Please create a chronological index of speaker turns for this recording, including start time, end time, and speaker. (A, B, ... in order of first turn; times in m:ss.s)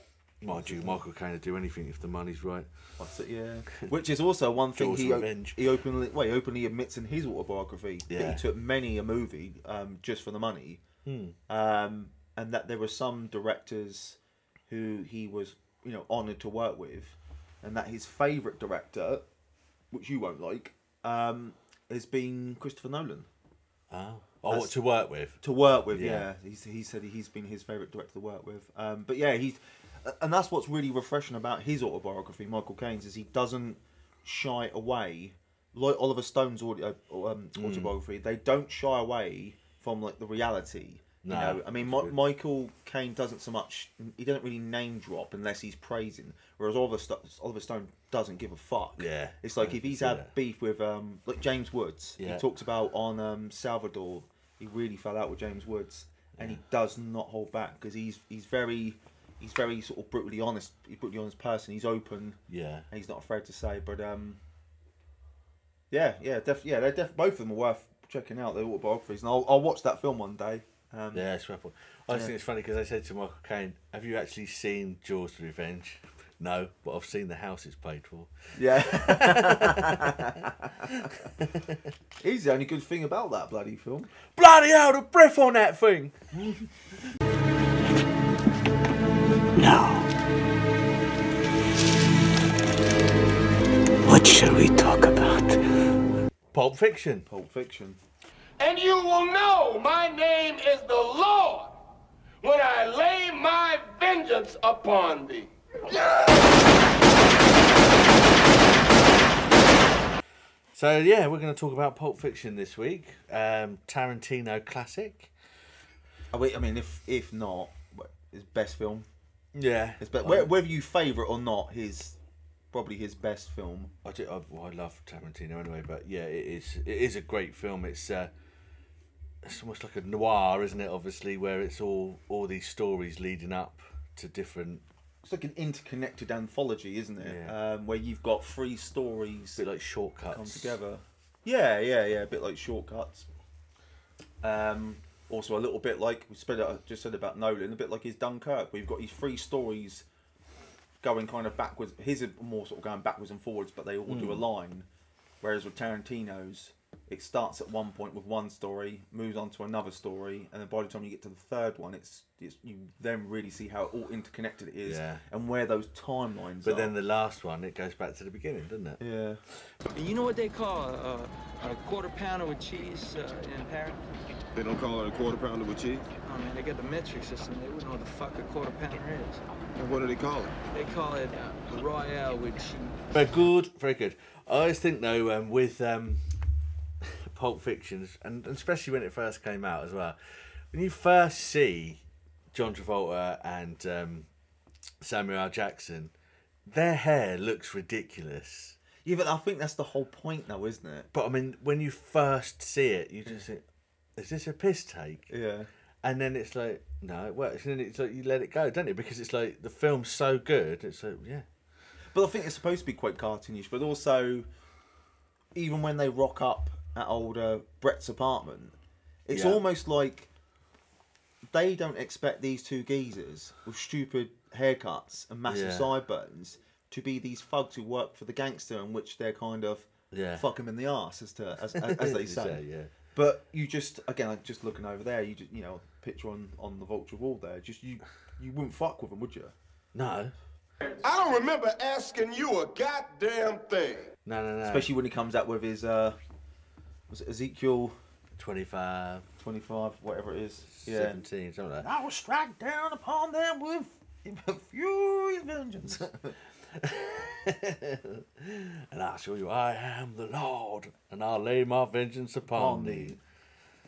0:00.4-0:02.7 A
0:00.5-0:01.0 B
0:03.0-0:10.8 B
0:04.8-0:05.6 A
0:08.1-0:08.4 A
0:11.1-0:11.4 A
0:11.5-0:19.3 B
0:19.9-0:23.3 B
0:23.9-0:25.4 A
0:25.4-1:02.4 B
0:25.9-0:26.3 A
0:37.6-0:37.9 A
0:41.2-0:42.2 A
0:49.0-0:50.3 A
0:52.2-0:52.4 A
0:56.4-0:56.6 A
1:02.5-1:02.9 A
1:02.9-1:04.4 B
1:05.9-1:11.2 B
1:11.1-1:20.2 A
1:18.6-1:21.3 B
1:20.9-1:21.8 A
1:22.2-1:24.1 B
1:24.4-1:26.3 A
1:26.4-1:26.7 B
1:29.6-1:30.1 C
1:34.0-1:35.6 C
1:36.5-1:37.3 A
1:37.3-1:38.0 B
1:38.6-1:41.7 D
1:42.4-1:46.5 D
1:50.7-1:55.3 A
1:56.3-1:59.1 B
1:59.6-2:00.5 A
2:00.0-2:02.2 B
2:02.7-2:03.9 B
2:04.0-2:08.3 A
2:09.4-2:14.8 A
2:15.2-2:19.6 B
2:17.2-2:17.5 A
2:19.6-2:20.8 A
2:20.3-2:23.3 B
2:24.4-2:30.1 B
2:31.0-2:34.9 B
2:34.1-2:34.4 A
2:35.4-2:46.9 B
2:44.8-2:45.2 A
2:46.6-2:49.0 A
2:49.0-2:49.4 B
2:49.9-2:54.0 E
2:54.6-2:56.1 F
2:56.2-2:59.4 E
2:59.8-3:00.6 F
3:00.7-3:03.1 E
3:03.1-3:06.2 A
3:07.3-3:10.2 A
3:10.7-3:12.0 A
3:12.5-3:14.3 A
3:15.0-3:16.1 A
3:16.7-3:18.8 A
3:19.0-3:21.1 B
3:21.1-3:23.6 A
3:24.2-3:25.3 A
3:25.3-3:25.7 B
3:26.0-3:31.5 A
3:32.1-3:34.5 B
3:35.6-3:40.3 B
3:39.3-3:39.6 A
3:41.5-3:52.6 B
3:45.5-3:45.9 A
3:50.1-3:50.5 A
3:51.8-3:52.9 A
3:53.1-3:59.6 B
3:59.9-4:00.3 A
4:00.9-4:04.1 D
4:04.3-4:04.9 A
4:04.6-4:06.2 B
4:07.1-4:08.0 B
4:08.4-4:09.2 A
4:09.4-4:11.2 B
4:10.7-4:11.9 A
4:11.8-4:16.4 B
4:16.8-4:23.2 A
4:22.5-4:23.2 B